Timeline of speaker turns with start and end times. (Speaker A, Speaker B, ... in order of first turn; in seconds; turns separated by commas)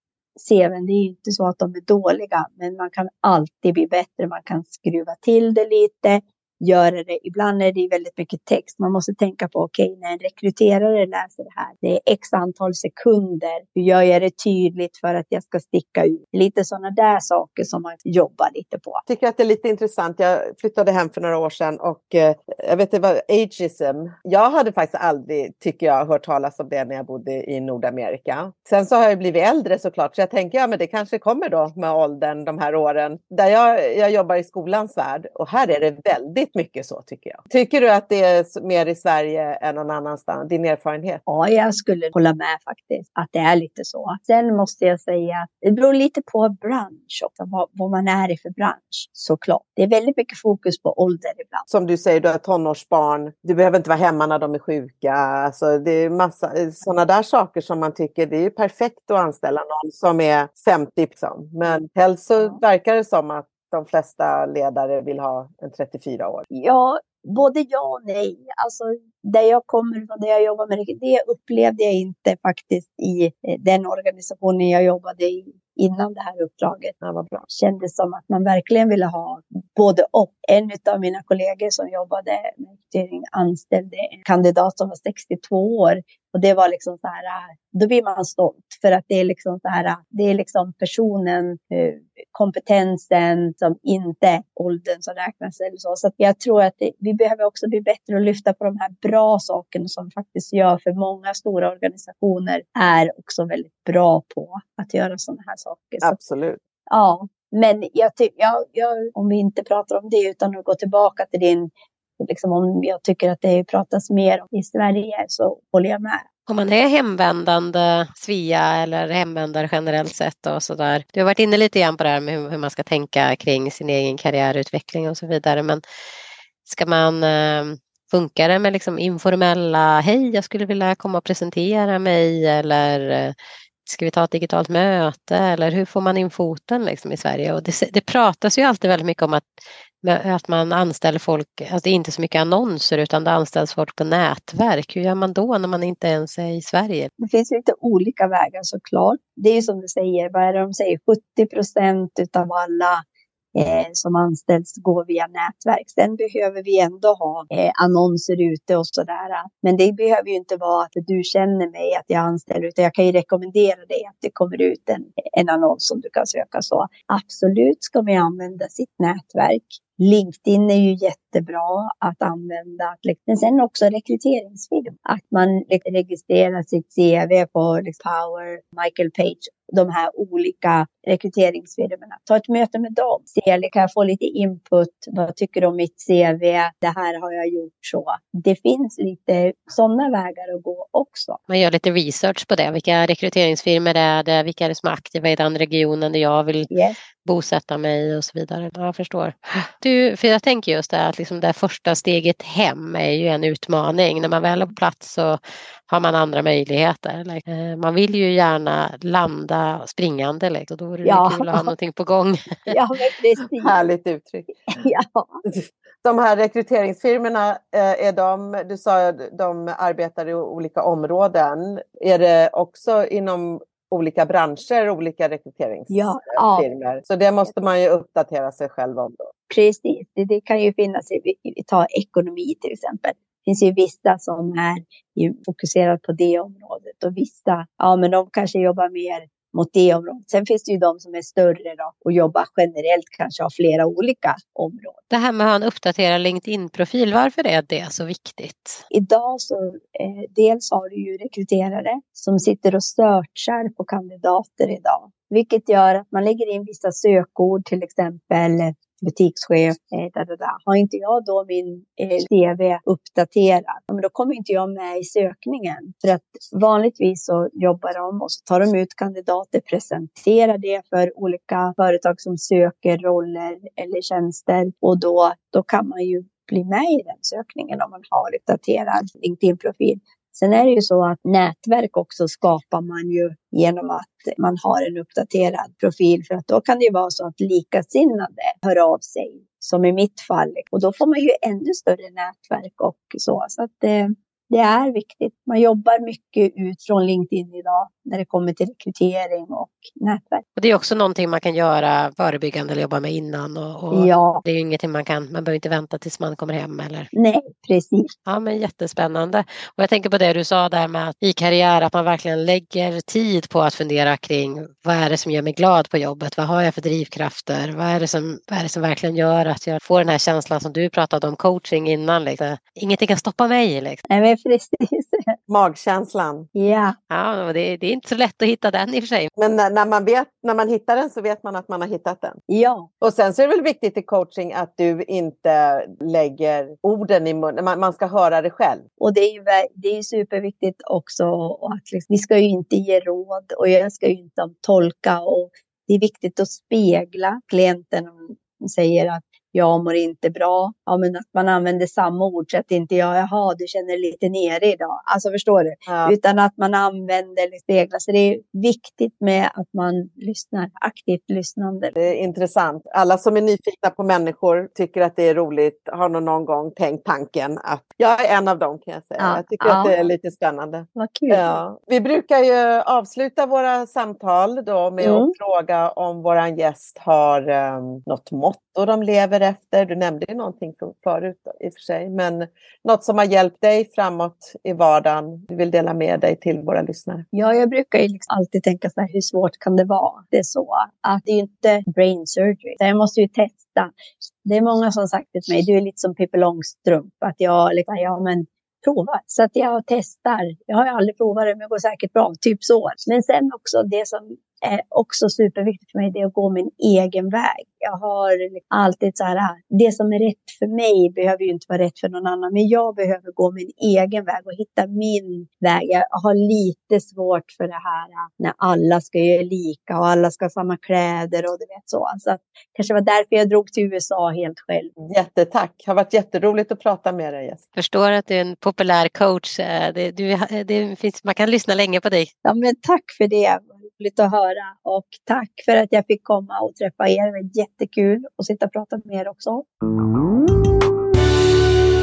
Speaker A: 0.4-19.0, Speaker B: 19.1-41.2, Speaker A: 41.3-51.6, Speaker B: 51.7-66.5, Speaker A: 66.5-77.0, Speaker B: 77.0-77.5, Speaker A: 77.5-106.2, Speaker B: 106.0-106.6, Speaker A: 106.9-116.2, Speaker C: 116.5-125.8, Speaker C: 126.7-133.3, Speaker C: 133.9-139.5, Speaker C: 140.0-147.1, Speaker A: 147.2-153.0, Speaker A: 153.5-191.4, Speaker C: 191.5-196.7, Speaker A: 196.7-197.0, Speaker C: 197.2-212.8, Speaker A: 211.1-211.7, Speaker A: 212.7-213.8, Speaker B: 213.6-214.6, Speaker A: 214.7-215.4, Speaker B: 215.5-229.3, Speaker A: 225.9-226.7, Speaker A: 229.5-245.0, Speaker C: 245.1-248.8, Speaker A: 248.9-300.4, Speaker C: 300.6-307.1, Speaker A: 303.9-304.4, Speaker A: 307.1-308.1, Speaker C: 308.3-324.0, Speaker A: 324.1-325.3, Speaker B: 325.5-326.5, Speaker A: 326.6-327.0, Speaker C: 327.1-329.3, Speaker B: 329.4-332.4, Speaker A: 332.5-332.9, Speaker B: 333.0-338.9, Speaker A: 339.0-361.9, Speaker B: 355.9-356.1, Speaker B: 362.0-387.2, Speaker A: 369.2-369.9, Speaker A: 370.9-371.6, Speaker A: 375.0-375.3, Speaker A: 387.3-424.9, Speaker B: 425.0-427.6, Speaker C: 427.8-432.3, Speaker A: 432.4-439.6